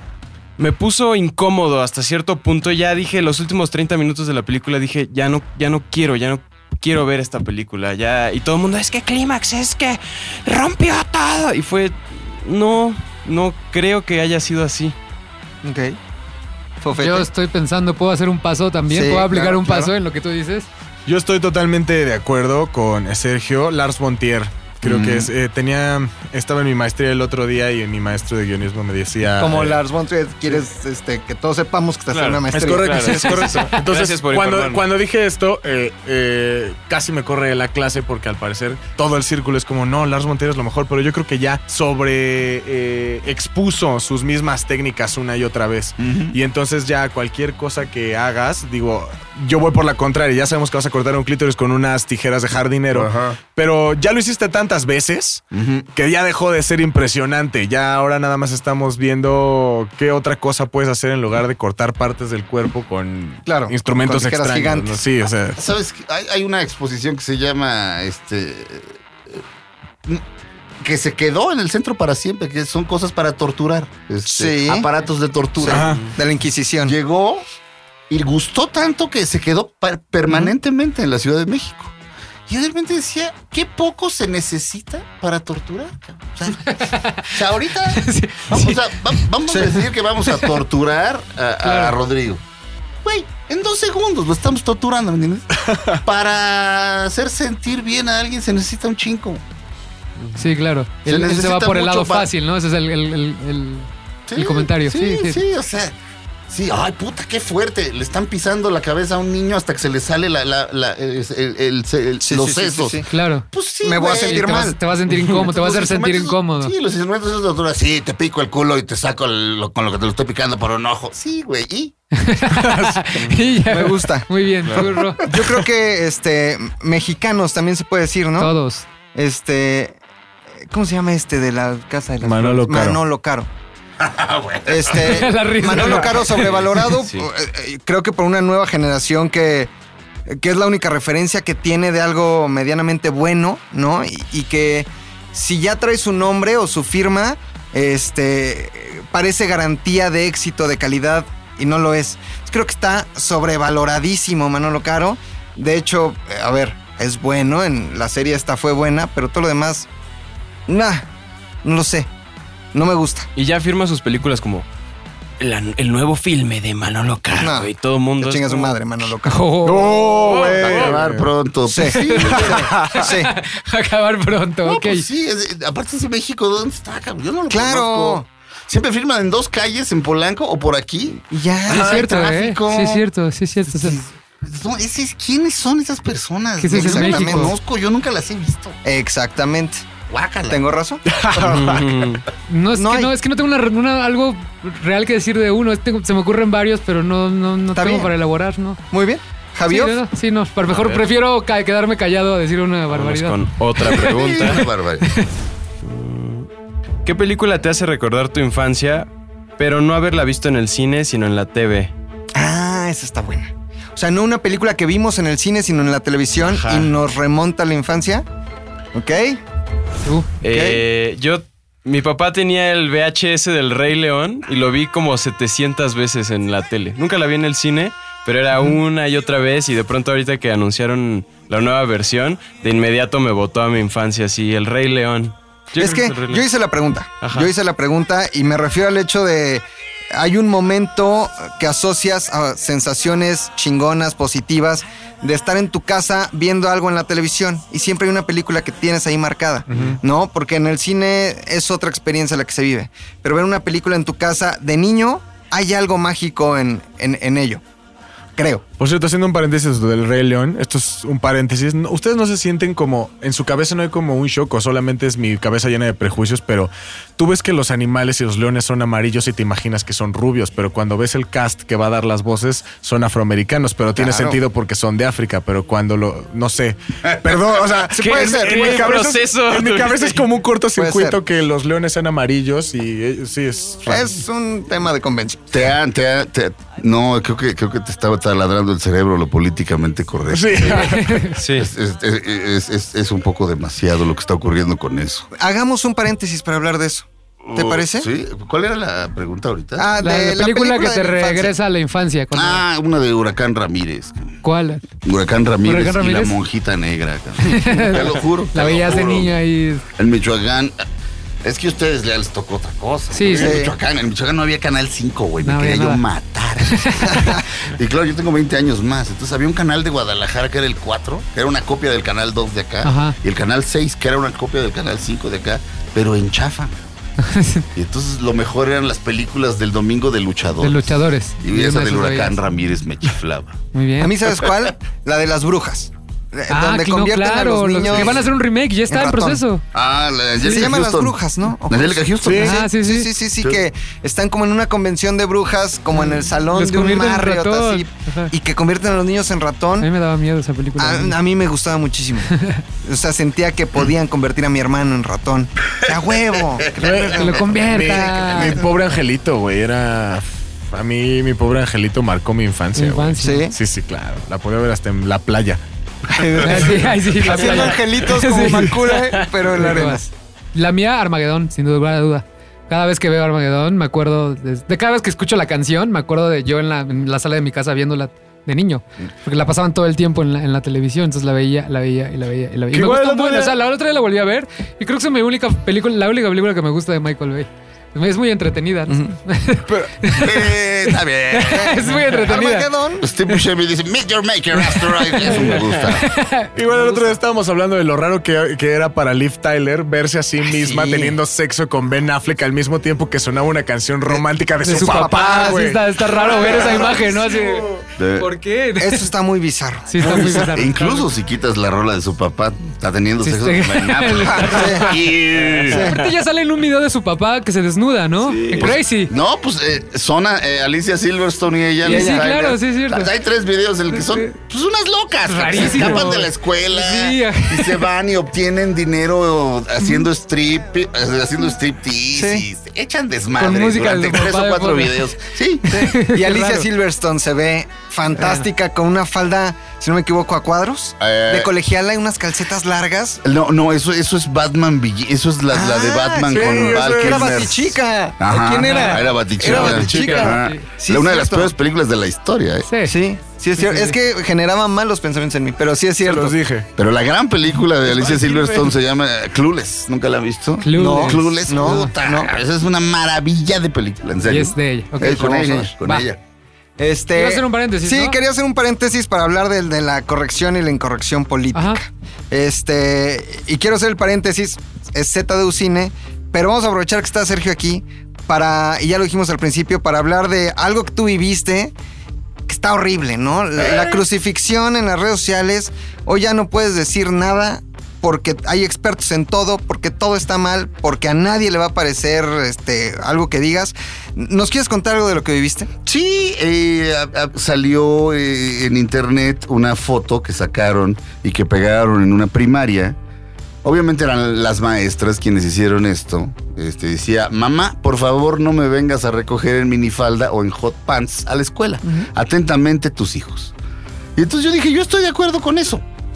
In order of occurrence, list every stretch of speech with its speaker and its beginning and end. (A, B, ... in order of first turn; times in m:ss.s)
0:00.6-0:15.0 A
0:15.6-0:16.0 B
0:16.8-0:17.3 B
0:17.0-0:20.7 C
0:18.9-0:19.9 B
0:21.0-0:29.8 D
0:24.8-0:25.3 B
0:29.4-0:33.3 B
0:32.1-0:34.8 A
0:32.5-0:55.4 D
0:46.0-0:46.4 E
0:52.9-0:53.4 E
0:55.5-0:55.9 E
0:55.9-1:05.6 D
1:03.4-1:05.0 B
1:05.6-1:09.4 E
1:10.8-1:16.0 E
1:14.2-1:14.9 B
1:15.6-1:16.9 B
1:15.7-1:16.1 D
1:16.8-1:17.4 E
1:18.1-1:21.9 E
1:22.5-1:32.4 E
1:26.6-1:27.3 C
1:27.9-1:29.2 C
1:29.5-1:29.8 B
1:31.6-1:32.0 C
1:33.0-1:39.4 E
1:35.6-1:36.0 D
1:40.4-1:45.4 C
1:41.0-1:42.3 E
1:44.3-1:46.0 E
1:46.5-2:01.9 E
1:52.2-1:53.1 B
1:53.1-1:53.5 C
1:53.8-1:54.8 B
1:54.0-1:56.7 C
2:02.1-2:05.2 C
2:02.6-2:03.0 D
2:03.6-2:08.5 B
2:08.4-2:08.8 C
2:09.1-2:10.0 B
2:10.7-2:13.5 B
2:12.2-2:13.0 D
2:14.0-2:15.3 E
2:14.6-2:19.7 B
2:14.9-2:16.5 C
2:16.4-2:17.3 A
2:20.3-2:39.9 B
2:40.7-2:41.1 B
2:41.6-2:42.1 B
2:42.7-2:43.3 B
2:43.4-2:44.7 A
2:45.4-2:48.8 A
2:47.4-2:47.7 B
2:48.2-2:49.5 B
2:49.2-2:50.1 C
2:49.6-2:51.2 D
2:50.2-2:50.9 A
2:50.6-2:52.7 E
2:51.7-2:53.3 B
2:51.9-2:55.0 C
2:52.5-2:53.0 D
2:54.6-3:03.0 E
2:57.5-2:58.2 B
3:01.3-3:02.1 B
3:01.7-3:04.0 C
3:03.6-3:08.8 E
3:06.6-3:07.5 C
3:06.7-3:07.5 B
3:08.8-3:09.8 B
3:10.1-3:10.6 E
3:10.5-3:11.0 B
3:11.1-3:11.9 D
3:11.4-3:12.2 A
3:12.5-3:18.8 C
3:12.8-3:13.1 B
3:17.7-3:18.1 B
3:18.9-3:20.0 B
3:19.7-3:24.0 C
3:20.7-3:21.0 A
3:22.9-3:24.7 A
3:23.8-3:25.1 E
3:25.0-3:25.3 C
3:25.8-3:26.5 A
3:27.0-3:31.9 A
3:32.3-3:38.2 B
3:36.4-3:36.9 A
3:38.9-3:39.4 B
3:40.4-3:56.4 A
3:40.4-3:40.8 B
3:55.8-4:17.6 B
3:57.2-3:57.5 A
4:09.7-4:10.0 D
4:18.4-4:18.6 B
4:18.8-4:44.1 D
4:34.0-4:34.4 B
4:37.9-4:39.0 B
4:38.0-4:40.2 A
4:40.8-4:41.2 B
4:43.8-4:45.4 B
4:45.5-4:55.3 E
4:50.3-4:51.2 D
4:50.6-4:51.4 C
4:51.4-4:51.7 A
4:55.4-4:58.1 B
4:57.4-5:00.0 E
4:59.8-5:01.5 B
5:00.0-5:02.6 C
5:02.3-5:04.4 E
5:04.4-5:04.8 C
5:05.0-5:09.4 E
5:05.6-5:06.4 C
5:07.4-5:09.8 C
5:10.0-5:10.8 E
5:11.4-5:26.8 E
5:13.1-5:13.6 C
5:13.3-5:13.7 B
5:15.4-5:16.0 C
5:16.7-5:17.2 C
5:17.1-5:17.4 B
5:22.8-5:23.2 C
5:27.2-5:27.7 C
5:27.7-5:33.6 E
5:30.6-5:32.4 C
5:33.7-5:34.1 C
5:34.0-5:38.3 B
5:36.5-5:39.6 C
5:37.9-5:38.2 E
5:38.9-5:39.4 B
5:39.7-5:41.2 E
5:40.4-5:40.7 C
5:40.4-5:49.9 B
5:41.7-5:42.6 E
5:42.2-5:42.5 D
5:42.4-5:43.1 C
5:45.9-5:48.3 C
5:49.8-5:51.2 C
5:50.8-5:57.4 B
5:52.3-5:52.6 C
5:56.0-5:57.4 E
5:56.8-6:05.6 D
5:57.1-5:58.6 C
6:02.7-6:03.4 C
6:03.2-6:03.5 B
6:06.1-6:10.1 B
6:06.4-6:08.8 C
6:09.5-6:32.7 C
6:22.7-6:23.6 D
6:28.9-6:29.1 B
6:29.7-6:29.9 D
6:30.1-6:31.8 E
6:31.5-6:33.1 B
6:33.0-6:36.1 E
6:34.6-6:37.2 C
6:36.5-6:47.8 D
6:44.1-6:45.6 B
6:44.6-6:49.1 C
6:48.0-6:48.3 E
6:48.8-6:50.5 B
6:49.9-6:51.1 C
6:50.0-6:55.9 E
6:53.2-6:55.0 C
6:54.4-6:55.0 B
6:55.6-6:56.0 B
6:55.7-6:59.1 C
6:58.3-6:58.7 A
6:58.5-7:15.8 E
7:01.8-7:03.1 C
7:01.9-7:02.2 B
7:03.9-7:04.3 C
7:05.2-7:07.8 C
7:12.1-7:12.5 B
7:13.4-7:15.0 C
7:15.7-7:16.7 C
7:15.7-7:23.2 B
7:18.2-7:18.4 C
7:21.0-7:21.5 E
7:23.2-7:32.7 E
7:25.5-7:31.5 B
7:26.3-7:27.5 D
7:28.6-7:29.6 C
7:29.4-7:30.3 D
7:30.3-7:30.6 C
7:32.6-7:32.9 C
7:32.8-7:36.4 B
7:33.6-7:33.9 C
7:36.0-7:36.7 D
7:36.8-7:46.2 E
7:37.9-7:38.7 D
7:40.6-7:41.9 C
7:40.7-7:42.3 B
7:44.2-7:46.0 C
7:46.8-8:01.7 B
7:47.1-7:48.2 C
7:51.5-7:51.8 C
8:02.5-8:15.7 B
8:03.6-8:04.0 E
8:15.8-8:23.0 E
8:23.6-8:33.5 E
8:34.2-8:35.8 E